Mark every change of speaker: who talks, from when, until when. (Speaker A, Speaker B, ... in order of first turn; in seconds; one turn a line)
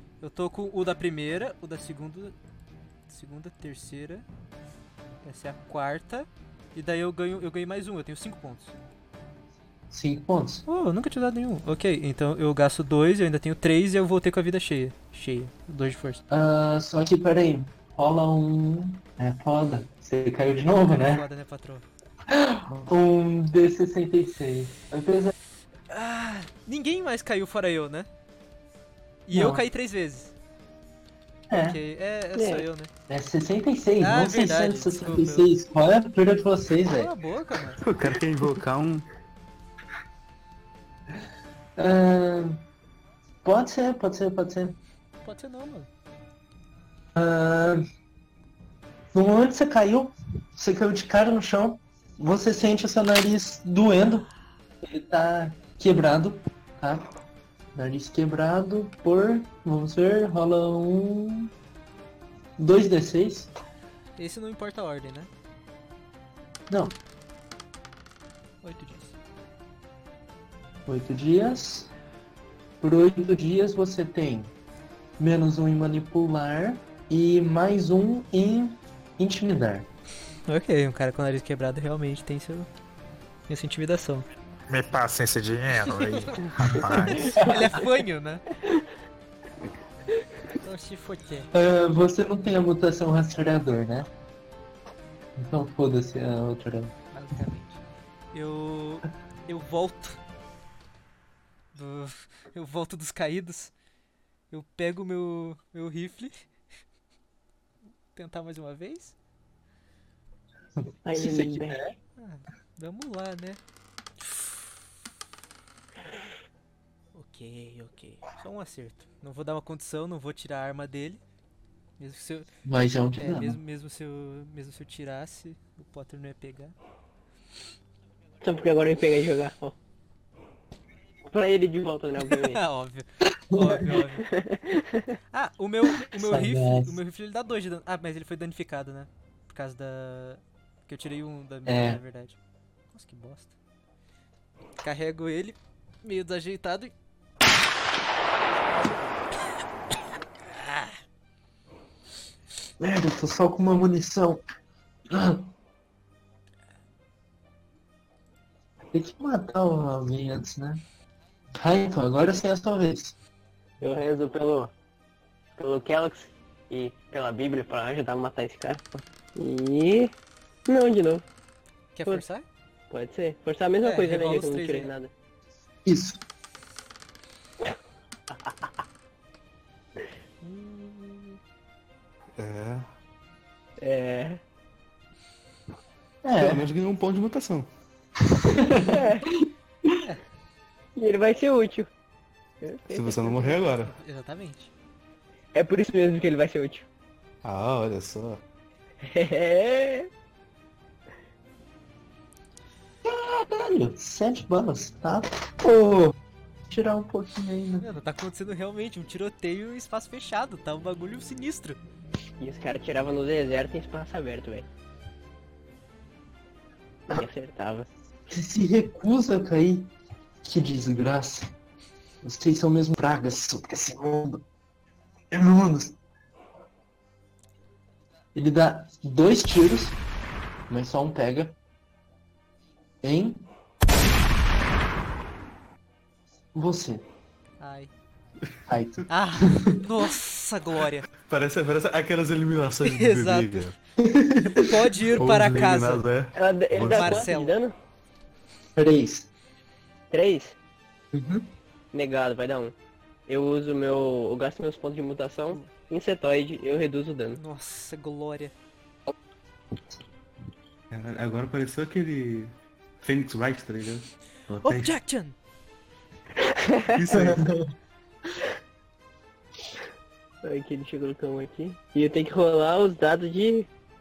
Speaker A: 0.2-2.4
Speaker A: 3.1-4.3
Speaker A: 5.2-8.8
Speaker B: 9.9-10.7
Speaker A: 10.7-16.2
Speaker B: 16.3-21.2
Speaker A: 20.9-21.9
Speaker B: 22.3-25.3
Speaker A: 25.9-28.1
Speaker A: 29.3-30.3
Speaker B: 29.3-29.6
Speaker B: 31.5-31.8
Speaker A: 31.5-32.9
Speaker C: 32.4-32.6
Speaker B: 33.1-37.1
Speaker A: 34.0-35.5
Speaker A: 36.9-37.8
Speaker D: 37.8-39.1
Speaker B: 41.8-42.6
Speaker B: 43.4-44.8
Speaker A: 45.2-45.9
Speaker B: 47.1-47.8
Speaker B: 49.1-54.3
Speaker B: 54.8-57.1
Speaker B: 57.8-61.5
Speaker B: 62.6-63.5
Speaker A: 64.2-65.3
Speaker B: 66.7-67.0
Speaker A: 68.6-69.1
Speaker B: 70.9-71.9
Speaker B: 72.8-74.5
Speaker B: 75.2-79.9
Speaker A: 80.5-82.7
Speaker A: 83.5-84.3
Speaker E: 84.7-87.5
Speaker A: 86.0-88.5
Speaker C: 87.2-87.6
Speaker A: 90.6-91.5
Speaker B: 91.5-94.1
Speaker B: 95.4-96.9
Speaker A: 97.1-97.8
Speaker A: 98.3-100.2
Speaker A: 101.7-103.7
Speaker A: 104.5-106.5
Speaker A: 108.2-109.2
Speaker C: 111.0-111.8
Speaker B: 111.2-111.9
Speaker A: 112.2-113.6
Speaker A: 117.1-121.2
Speaker A: 122.0-122.5
Speaker B: 122.7-123.6
Speaker A: 123.2-126.8
Speaker C: 128.4-129.8
Speaker C: 131.3-132.6
Speaker A: 132.3-134.3
Speaker B: 133.2-134.0
Speaker C: 134.3-135.2
Speaker A: 135.3-142.4
Speaker B: 136.0-137.0
Speaker B: 141.7-142.0
Speaker A: 142.9-143.5
Speaker A: 144.8-146.9
Speaker B: 152.8-154.4
Speaker B: 155.1-155.5
Speaker B: 158.9-160.8
Speaker B: 161.6-163.2
Speaker C: 163.8-164.7
Speaker C: 165.6-170.1
Speaker C: 170.7-171.2
Speaker A: 171.9-172.4
Speaker C: 172.9-175.1
Speaker A: 173.8-174.9
Speaker B: 175.8-176.2
Speaker A: 180.4-181.4
Speaker D: 182.4-182.9
Speaker C: 183.8-184.4
Speaker B: 186.2-186.7
Speaker D: 186.4-187.7
Speaker B: 188.4-189.3
Speaker C: 188.8-189.3
Speaker C: 191.0-191.9
Speaker C: 192.6-193.6
Speaker D: 192.9-193.9
Speaker A: 193.8-194.7
Speaker C: 195.5-196.9
Speaker D: 197.4-198.4
Speaker C: 199.0-200.1
Speaker B: 203.1-206.2
Speaker B: 206.7-207.9
Speaker A: 207.8-211.8
Speaker C: 212.4-214.7
Speaker C: 217.1-217.9
Speaker B: 218.3-219.9
Speaker B: 220.4-221.5
Speaker B: 222.2-224.4
Speaker B: 225.3-226.0
Speaker B: 228.3-230.0
Speaker B: 230.7-231.6
Speaker B: 233.0-233.5
Speaker B: 236.5-237.1
Speaker A: 237.6-237.9
Speaker B: 238.7-239.8
Speaker A: 239.1-241.1
Speaker D: 241.2-243.8
Speaker A: 242.8-243.7
Speaker B: 244.0-244.8
Speaker A: 244.5-246.0
Speaker D: 245.1-247.3
Speaker C: 246.3-247.8
Speaker A: 246.8-247.6
Speaker B: 248.8-249.3
Speaker C: 250.1-250.6
Speaker B: 251.1-251.5
Speaker C: 251.9-252.8
Speaker C: 253.3-257.4
Speaker A: 257.4-258.5
Speaker D: 260.9-264.9
Speaker A: 264.6-265.4
Speaker C: 266.4-267.3
Speaker D: 266.9-267.6
Speaker B: 267.1-267.7
Speaker C: 270.4-273.7